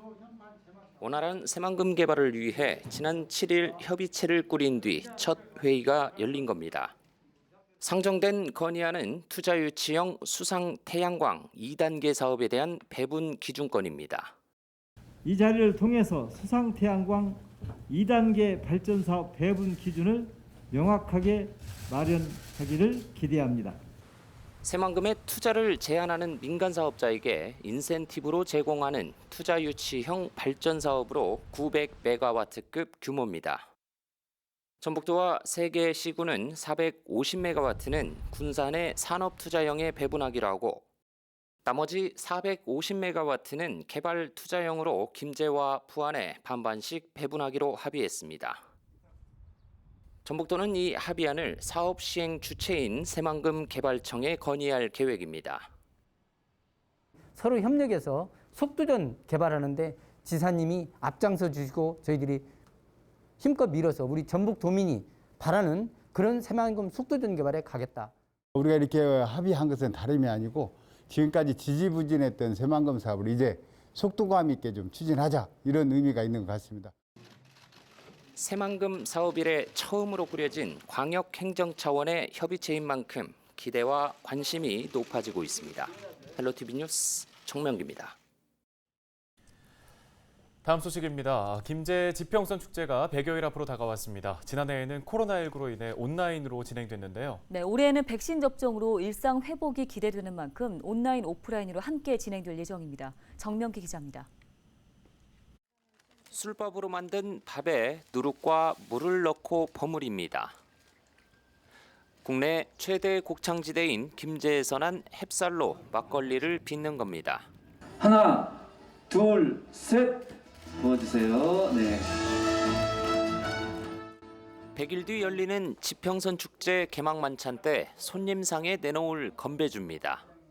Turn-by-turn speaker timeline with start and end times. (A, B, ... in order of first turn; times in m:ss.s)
0:01.0-0:06.9 A
0:07.8-0:14.3 A
0:15.2-0:23.8 B
0:24.6-0:33.7 A
0:34.8-0:40.8 A
0:41.6-0:48.6 A
0:50.2-0:55.7 A
0:57.4-1:02.4 C
1:03.4-1:08.1 C
1:08.6-1:16.9 D
1:18.4-1:28.2 A
1:30.6-1:37.4 E
1:37.5-1:44.3 F
1:46.3-1:50.6 A
1:52.2-1:57.5 A
1:58.0-1:58.5 B
1:59.1-2:00.3 B
2:00.8-2:02.0 B
2:04.8-2:10.2 A